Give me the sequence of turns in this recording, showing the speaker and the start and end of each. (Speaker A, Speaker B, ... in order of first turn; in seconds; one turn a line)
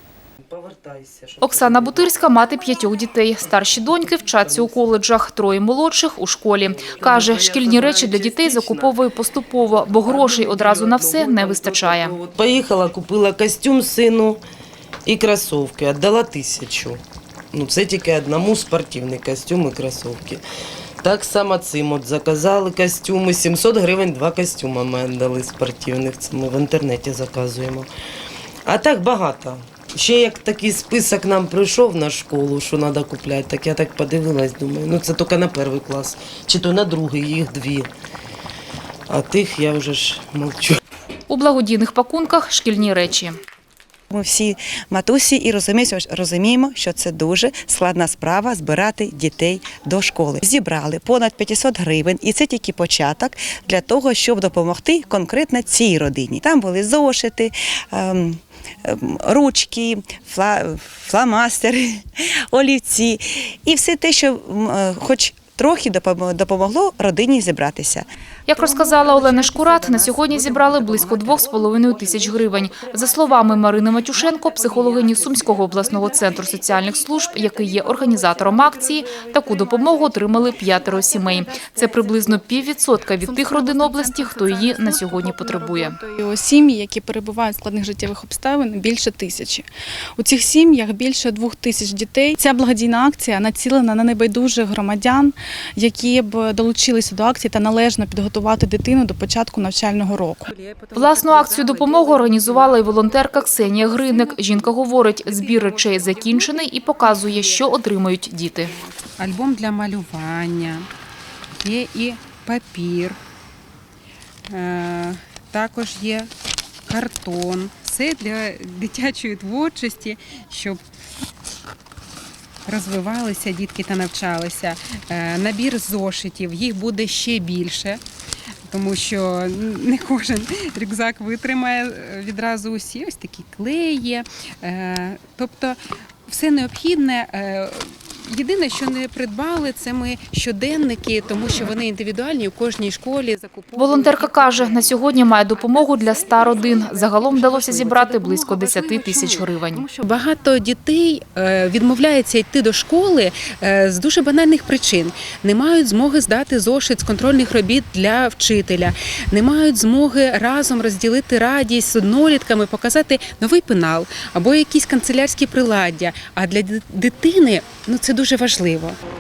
Speaker A: 0.5-2.4
Speaker B: 1.4-12.1
Speaker A: 3.6-5.0
Speaker A: 6.6-9.0
Speaker A: 9.8-14.4
Speaker A: 15.1-17.0
Speaker A: 17.5-20.4
Speaker A: 21.0-27.9
Speaker A: 28.6-37.9
Speaker A: 39.1-40.8
Speaker B: 41.3-43.4
Speaker C: 44.1-68.0
Speaker B: 68.5-86.0
Speaker D: 68.6-71.3
Speaker D: 72.0-73.3
Speaker D: 74.4-76.2
Speaker D: 78.3-78.6
Speaker E: 83.2-100.5
Speaker D: 100.5-107.7
Speaker B: 101.0-108.8
Speaker D: 108.8-110.9
Speaker D: 111.6-113.2
Speaker D: 114.5-116.3
Speaker D: 116.9-120.8
Speaker D: 122.7-128.0
Speaker D: 128.7-169.0
Speaker B: 143.8-149.8